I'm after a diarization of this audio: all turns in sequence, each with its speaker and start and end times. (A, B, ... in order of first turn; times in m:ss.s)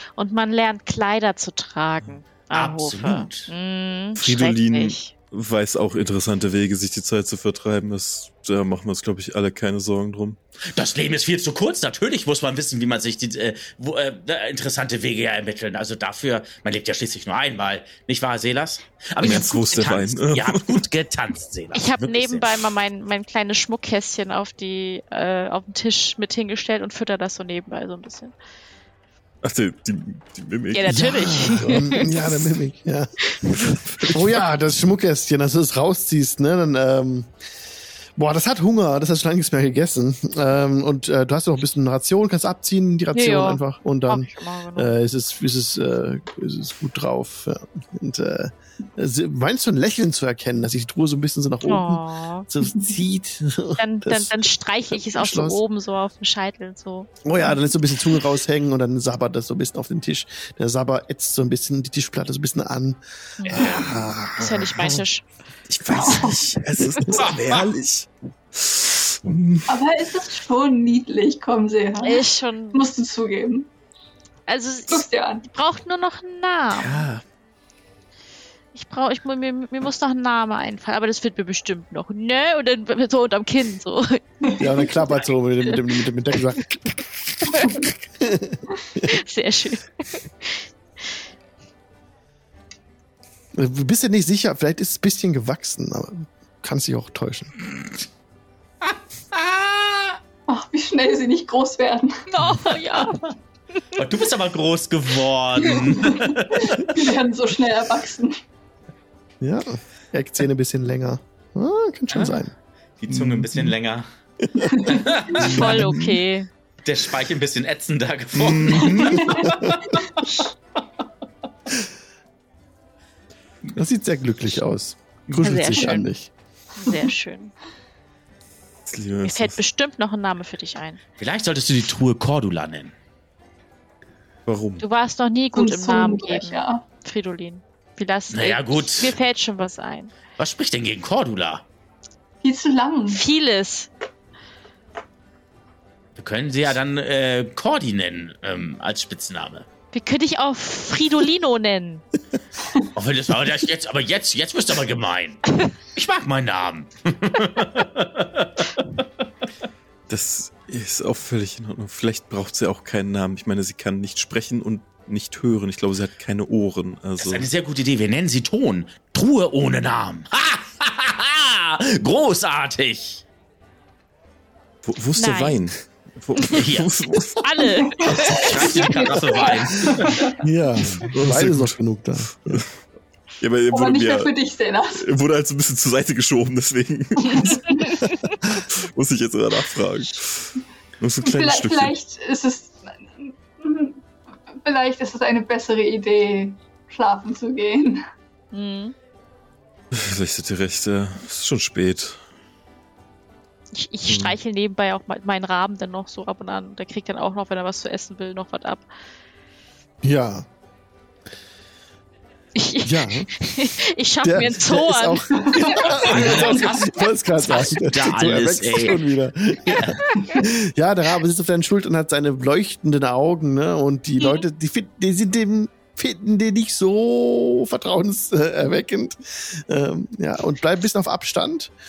0:00.2-0:05.1 A
0:02.5-0:03.5 B
0:04.2-0:10.4 C
0:10.7-0:22.7 B
0:19.2-0:20.6 C
0:19.2-0:19.5 A
0:21.7-0:28.3 A
0:29.4-0:31.8 C
0:30.7-0:32.5 A
0:30.9-0:33.1 D
0:33.2-0:33.5 A
0:33.5-0:34.4 C
0:34.1-0:37.3 D
0:38.2-0:55.6 D
0:43.1-0:44.9 A
0:51.6-0:52.5 A
0:53.8-0:57.6 A
0:57.2-1:05.0 D
1:03.4-1:05.3 A
1:05.7-1:09.8 C
1:05.9-1:06.4 E
1:07.2-1:07.6 B
1:09.7-1:13.7 E
1:12.0-1:12.8 A
1:14.5-1:17.0 A
1:14.9-1:15.4 E
1:16.7-1:17.2 C
1:18.7-1:24.8 A
1:24.6-1:29.2 D
1:29.0-1:31.2 A
1:33.5-1:37.6 D
1:39.3-1:40.1 B
1:40.5-1:42.2 E
1:42.3-1:43.3 A
1:43.9-1:47.0 B
1:45.7-1:48.4 E
1:49.4-1:52.5 D
1:52.1-1:52.4 B
1:53.0-1:54.0 B
1:53.1-1:53.7 C
1:54.4-1:54.8 D
1:54.7-1:55.6 E
1:54.8-1:55.8 B
1:55.4-1:56.5 A
1:55.5-1:56.2 C
1:56.8-2:00.2 B
1:58.3-1:59.4 C
1:58.9-1:59.5 E
1:59.2-1:59.8 D
2:03.7-2:06.3 D
2:05.4-2:06.1 A
2:05.4-2:05.8 C
2:06.8-2:07.5 A
2:08.8-2:09.6 C
2:09.2-2:11.0 A
2:11.2-2:12.9 B
2:14.4-2:14.8 C
2:14.8-2:20.1 A
2:15.5-2:16.8 E
2:18.3-2:19.2 B
2:20.4-2:21.6 B
2:22.4-2:23.2 E
2:23.1-2:23.9 A
2:26.2-2:29.6 B
2:29.9-2:32.0 A
2:32.9-2:39.0 B
2:40.1-2:47.5 C
2:47.2-2:53.2 B
2:54.8-2:57.7 C
2:55.2-2:55.6 A
2:56.5-2:56.9 B
2:57.4-2:59.2 A
2:57.8-3:00.4 E
2:58.3-3:00.3 B
3:00.4-3:02.6 D
3:00.8-3:01.8 C
3:02.3-3:02.7 C
3:03.4-3:04.3 C
3:03.7-3:05.0 E
3:04.9-3:11.9 C
3:07.3-3:07.8 E
3:07.3-3:08.3 A
3:11.2-3:14.0 E
3:14.5-3:18.0 E
3:18.5-3:18.9 A
3:19.9-3:22.2 C
3:23.7-3:28.9 A
3:24.1-3:24.4 C
3:30.0-3:30.5 D
3:32.5-3:35.3 A
3:32.8-3:33.3 D
3:34.2-3:51.7 D
3:35.4-3:36.7 E
3:35.8-3:39.0 B
3:37.4-3:37.7 A
3:39.7-3:40.0 B
3:40.0-3:40.4 A
3:44.2-3:44.4 A